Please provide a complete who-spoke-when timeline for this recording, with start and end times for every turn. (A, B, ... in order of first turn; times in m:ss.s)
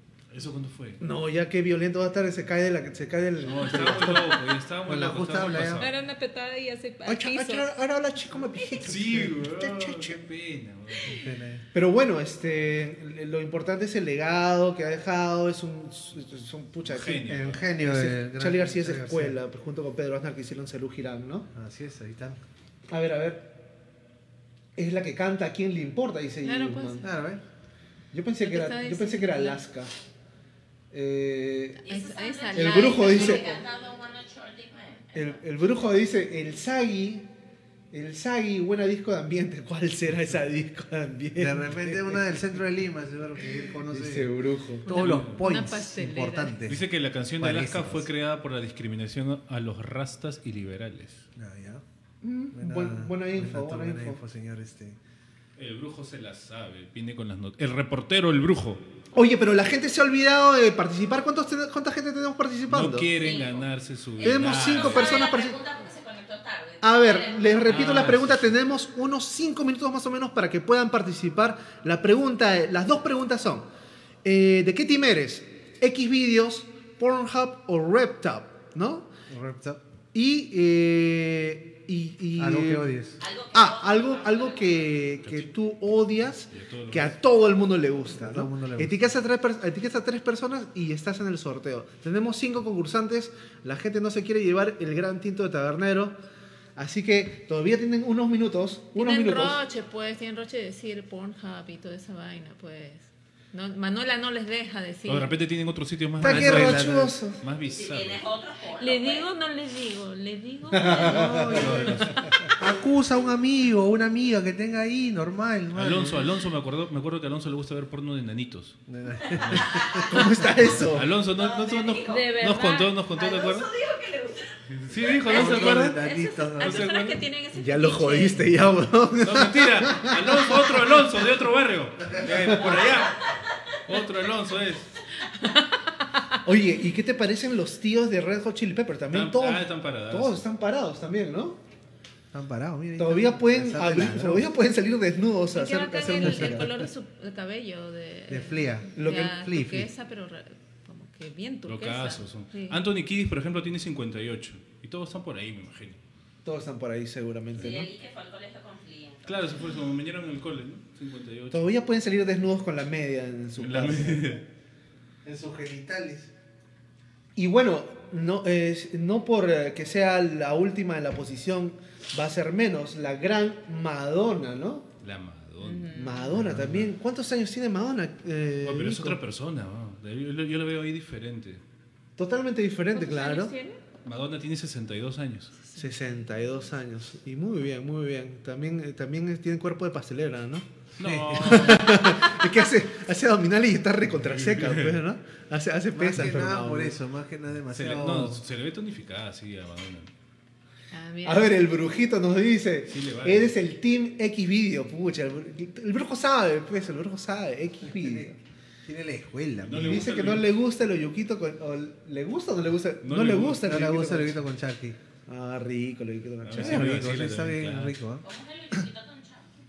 0:00.3-0:01.0 A
0:01.0-0:04.4 B
0:03.4-0:05.9 A
0:04.8-0:05.9 C
0:05.8-0:07.7 D
0:07.0-0:10.2 B
0:08.8-0:11.2 A
0:11.0-0:11.6 C
0:11.7-0:21.5 B
0:16.8-0:17.6 A
0:17.2-0:19.4 C
0:21.5-0:22.4 C
0:22.9-0:23.6 B
0:24.8-0:27.1 B
0:26.4-0:27.1 D
0:27.0-0:27.4 C
0:28.1-0:29.9 B
0:28.4-0:29.6 D
0:30.9-0:31.8 B
0:31.8-0:35.7 E
0:31.8-0:33.5 D
0:32.5-0:33.6 B
0:35.1-0:37.3 B
0:37.9-0:42.6 B
0:41.4-0:44.3 C
0:43.4-0:44.9 B
0:44.8-0:46.6 D
0:44.8-0:46.8 C
0:44.9-0:45.4 A
0:46.7-0:51.2 A
0:47.4-0:48.1 C
0:51.4-0:51.8 C
0:52.2-0:54.2 B
0:52.5-0:55.0 C
0:55.6-0:58.8 A
0:59.1-1:03.1 B
1:02.7-1:05.2 A
1:03.2-1:03.7 E
1:04.2-1:08.1 E
1:04.2-1:05.6 B
1:06.8-1:13.7 B
1:07.6-1:08.5 A
1:14.2-1:19.1 B
1:19.3-1:19.8 C
1:20.1-1:22.9 B
1:22.4-1:23.2 C
1:23.2-1:24.9 E
1:23.5-1:36.2 B
1:25.2-1:25.5 A
1:26.5-1:27.2 A
1:28.1-1:29.0 C
1:36.8-1:39.6 B
1:39.0-1:45.3 D
1:45.0-1:48.2 A
1:46.2-1:47.4 B
1:46.2-1:47.1 C
1:47.6-1:49.2 E
1:48.8-1:51.4 D
1:50.7-1:52.2 B
1:51.0-1:56.3 C
1:51.1-1:52.2 A
1:55.7-1:58.8 A
1:58.9-2:00.1 C
1:59.4-1:59.6 A
1:59.5-2:00.1 E
2:00.1-2:01.1 B
2:00.8-2:03.7 A
2:01.3-2:02.3 E
2:02.0-2:02.9 D
2:03.1-2:04.6 E
2:04.7-2:06.0 A
2:05.1-2:06.2 E
2:05.3-2:06.8 C
2:06.6-2:08.4 D
2:06.6-2:07.2 A
2:07.5-2:11.2 B
2:09.2-2:13.3 A
2:12.3-2:13.0 B
2:13.8-2:14.9 A
2:15.3-2:16.2 D
2:16.4-2:21.6 B
2:19.1-2:20.4 A
2:22.3-2:24.5 C
2:23.0-2:26.7 B
2:25.5-2:32.8 D
2:26.1-2:26.9 C
2:28.3-2:29.9 C
2:29.0-2:29.5 B
2:31.7-2:36.0 A
2:36.4-2:37.9 B
2:37.5-2:39.3 E
2:39.2-2:41.7 A
2:41.5-2:44.4 B
2:43.6-2:44.4 A
2:45.2-2:46.3 C
2:47.4-2:54.9 B
2:55.0-2:56.8 A
2:55.6-2:56.4 D
2:55.9-2:59.2 B
2:58.6-3:01.6 A
3:02.2-3:03.5 B
3:02.9-3:03.8 D
3:04.0-3:05.5 A
3:05.6-3:06.6 D
3:05.8-3:10.7 B
3:11.0-3:12.2 A
3:11.0-3:11.8 C
3:11.3-3:17.0 B
3:14.1-3:15.0 A
3:15.9-3:18.4 C
3:17.7-3:20.1 A
3:20.9-3:21.6 D
3:21.2-3:28.4 B
3:22.9-3:23.6 A
3:27.8-3:28.3 C
3:28.8-3:30.3 C
3:29.6-3:30.5 A
3:29.8-3:34.4 B
3:33.0-3:33.8 A
3:33.6-3:35.0 C
3:35.3-3:37.2 B
3:36.4-3:38.0 A
3:36.5-3:38.2 C
3:38.2-3:39.6 E